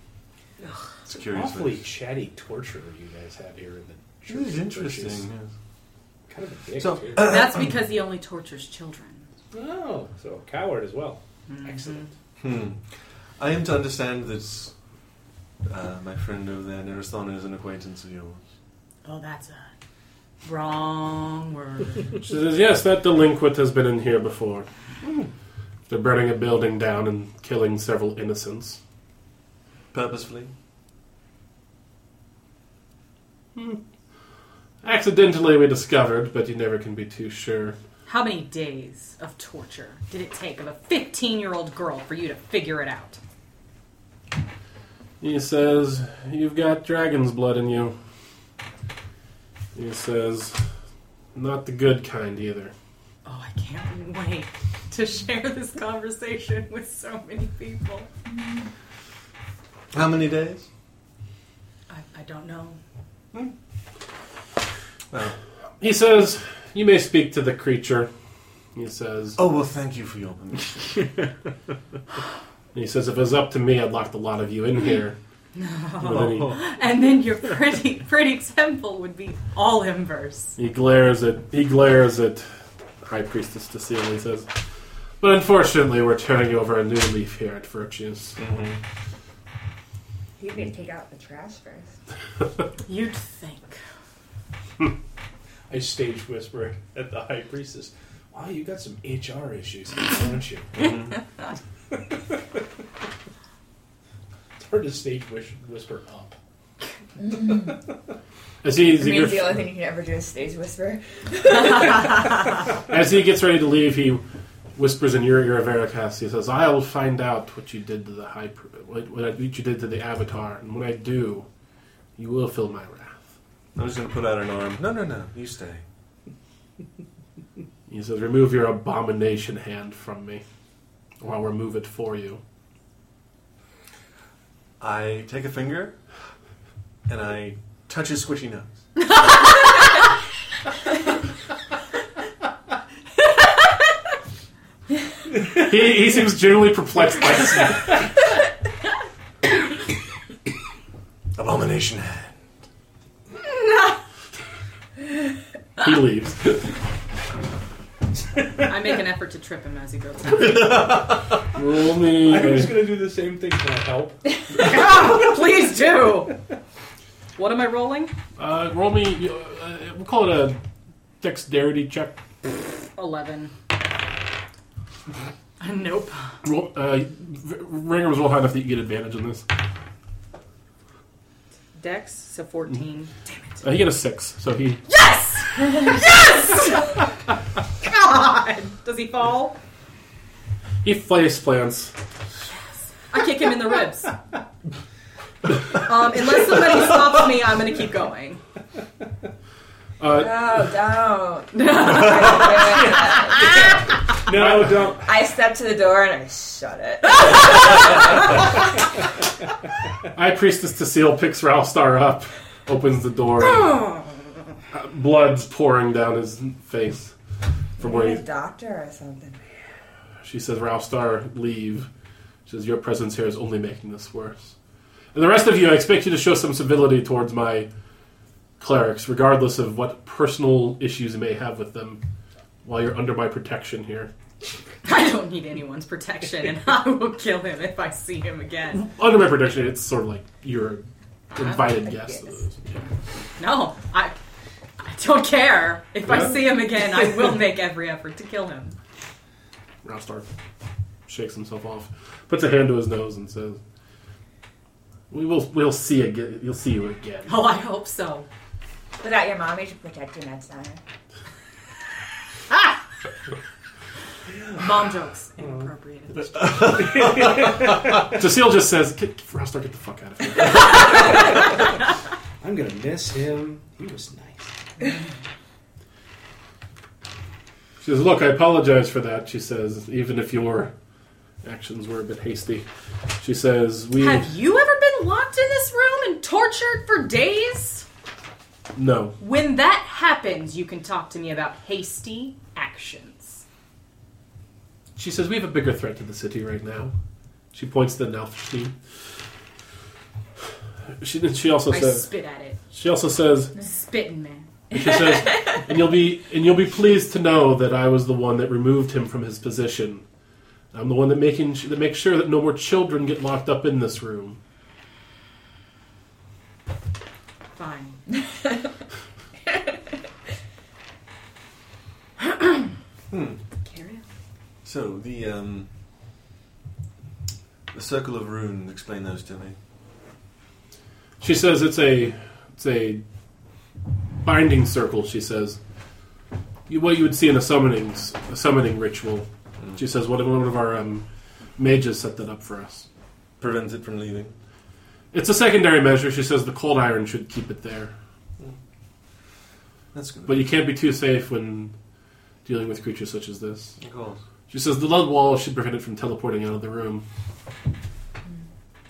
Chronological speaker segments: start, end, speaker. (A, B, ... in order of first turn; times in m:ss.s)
0:01.0-0:01.9 A
0:01.2-0:05.3 B
0:04.3-0:05.5 A
0:06.3-0:07.4 B
0:06.8-0:07.6 A
0:07.2-0:09.3 C
0:09.5-0:12.1 B
0:11.5-0:12.1 C
0:12.4-0:14.7 A
0:15.6-0:18.4 A
0:19.0-0:19.7 C
0:20.4-0:22.1 C
0:22.2-0:24.6 D
0:25.0-0:25.3 A
0:25.9-0:28.8 D
0:29.9-0:30.5 A
0:33.6-0:33.8 D
0:34.8-0:37.8 D
0:38.0-0:43.2 C
0:45.2-0:48.0 D
0:49.7-0:50.7 D
0:51.3-0:52.7 D
0:53.2-0:58.1 C
0:59.9-1:00.7 A
1:01.9-1:02.8 C
1:05.8-1:08.1 D
1:08.7-1:09.4 D
1:09.4-1:11.1 A
1:12.7-1:15.2 D
1:15.5-1:20.6 C
1:16.0-1:16.6 D
1:16.0-1:16.5 B
1:20.6-1:24.5 D
1:25.2-1:28.4 D
1:28.4-1:28.8 A
1:30.4-1:31.9 E
1:32.8-1:33.8 C
1:35.7-1:40.8 B
1:40.7-1:41.1 A
1:44.6-1:46.4 B
1:47.2-1:47.8 E
1:48.6-1:49.6 D
1:49.0-1:52.4 E
1:52.9-1:54.2 D
1:54.8-2:01.5 D
2:02.2-2:03.3 D
2:03.7-2:05.8 A
2:07.9-2:10.4 D
2:11.2-2:12.4 D
2:14.8-2:16.0 A
2:17.1-2:18.7 A
2:25.5-2:28.1 D
2:31.3-2:32.3 A
2:35.8-2:36.7 D
2:38.6-2:40.8 C
2:40.3-2:41.4 A
2:41.5-2:42.8 D
2:42.0-2:44.5 B
2:44.5-2:46.4 C
2:47.4-2:48.1 C
2:48.4-2:50.6 D
2:51.2-2:52.2 D
2:52.9-2:53.5 C
2:55.6-2:56.4 C
2:56.4-2:59.4 D
3:01.8-3:03.6 C
3:03.6-3:04.8 D
3:04.9-3:07.1 C
3:07.8-3:09.6 C
3:10.8-3:11.9 D
3:13.1-3:14.2 C
3:15.6-3:18.4 C
3:20.0-3:20.6 D
3:20.1-3:23.9 E
3:21.5-3:22.8 C
3:22.7-3:25.1 B
3:24.9-3:28.4 E
3:30.1-3:33.9 D
3:33.6-3:34.0 C
3:34.7-3:37.1 D
3:37.8-3:39.4 E
3:37.8-3:38.2 D
3:40.2-3:41.9 D
3:42.5-3:44.5 D
3:45.1-3:47.7 D
3:48.6-3:52.0 D
3:52.6-3:54.1 D
3:54.8-3:58.8 C
3:58.7-4:02.9 D
4:01.4-4:02.4 E
4:03.4-4:04.1 C
4:04.8-4:08.8 C
4:09.8-4:10.3 D
4:11.1-4:13.6 D
4:15.1-4:17.3 D
4:17.2-4:18.3 C
4:19.0-4:20.8 E
4:24.3-4:24.7 B
4:24.6-4:26.6 C
4:25.4-4:25.7 B
4:26.3-4:27.5 A
4:26.4-4:28.1 B
4:28.1-4:31.2 D
4:32.4-4:34.6 B
4:37.8-4:40.7 D
4:41.4-4:42.6 D
4:43.2-4:44.3 D
4:44.0-4:47.8 C
4:48.7-4:49.2 D
4:49.2-4:53.4 C
4:55.0-4:56.9 D
4:57.5-4:58.7 D
5:01.0-5:02.1 D
5:01.7-5:02.6 C
5:02.7-5:03.6 D
5:03.6-5:04.5 C
5:04.7-5:10.0 D
5:10.7-5:14.4 D
5:17.5-5:18.0 C
5:22.2-5:22.6 C
5:23.1-5:23.4 A
5:23.6-5:24.0 C
5:24.6-5:25.7 A
5:27.7-5:29.6 A
5:31.2-5:33.0 D
5:34.2-5:35.6 D
5:36.7-5:41.0 D
5:41.6-5:42.9 D
5:43.4-5:44.4 A
5:45.1-5:47.9 D
5:49.9-5:50.5 A
5:50.3-5:51.7 D
5:52.4-5:53.8 D
5:53.8-5:54.2 A
5:54.5-5:57.0 D